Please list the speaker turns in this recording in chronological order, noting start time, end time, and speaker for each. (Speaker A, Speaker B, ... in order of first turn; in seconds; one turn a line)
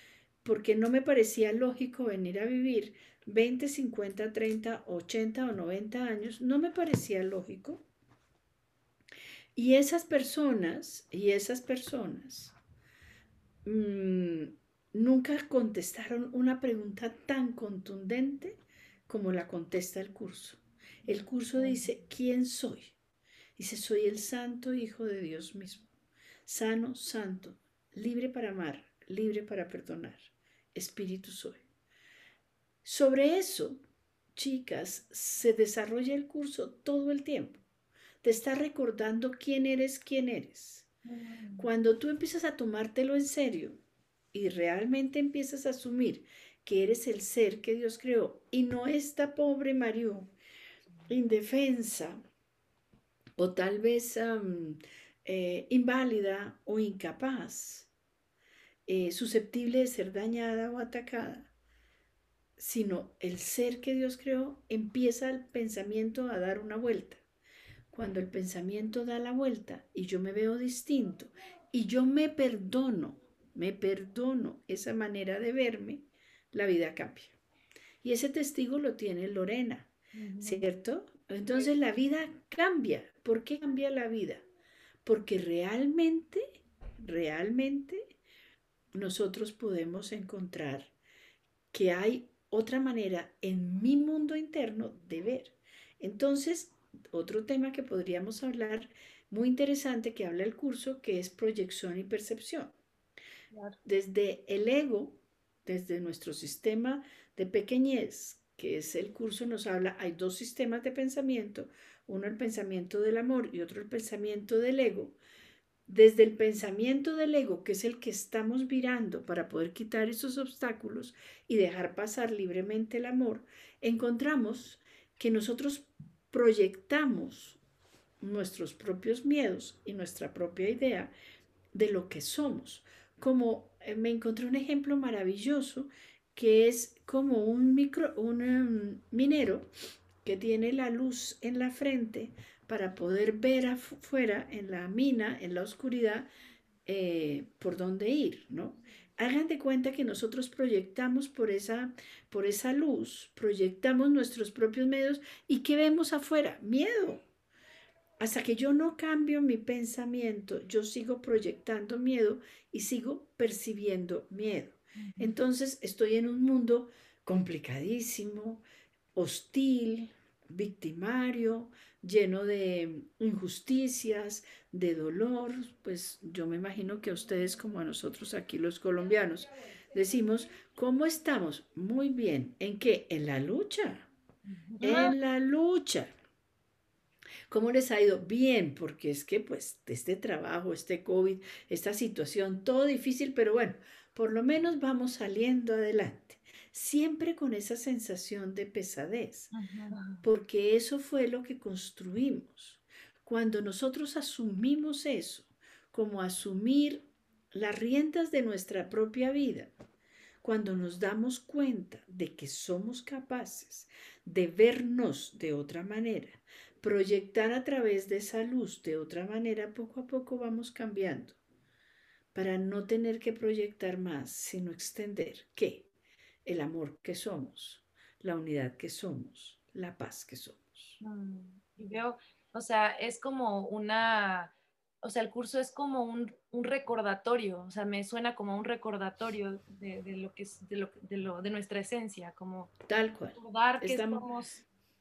Speaker A: 0.4-7.8
Speaker A: 9.5-12.5
Speaker A: 13.6-22.9
Speaker A: 23.6-25.8
Speaker A: 26.4-31.6
Speaker A: 32.8-33.8
Speaker A: 34.4-37.6
Speaker A: 38.2-40.9
Speaker B: 41.0-41.7
Speaker A: 41.6-43.8
Speaker A: 44.3-50.3
Speaker A: 51.1-52.2
Speaker A: 53.4-57.9
Speaker A: 58.9-61.5
Speaker A: 62.6-67.2
Speaker A: 67.9-77.3
Speaker A: 78.0-84.4
Speaker B: 80.1-80.6
Speaker A: 85.0-88.1
Speaker A: 88.9-90.9
Speaker A: 91.7-102.7
Speaker A: 103.8-115.2
Speaker A: 115.9-127.6
Speaker A: 128.2-131.1
Speaker A: 131.7-139.7
Speaker A: 140.2-146.3
Speaker A: 146.8-157.2
Speaker A: 158.2-168.6
Speaker B: 164.9-165.3
Speaker A: 169.1-184.1
Speaker B: 184.6-185.1
Speaker A: 184.8-186.1
Speaker A: 187.5-199.5
Speaker B: 199.5-200.2
Speaker A: 200.2-209.7
Speaker A: 210.4-221.4
Speaker A: 222.3-225.9
Speaker A: 226.4-231.0
Speaker B: 231.0-242.8
Speaker A: 242.9-244.2
Speaker B: 243.3-244.6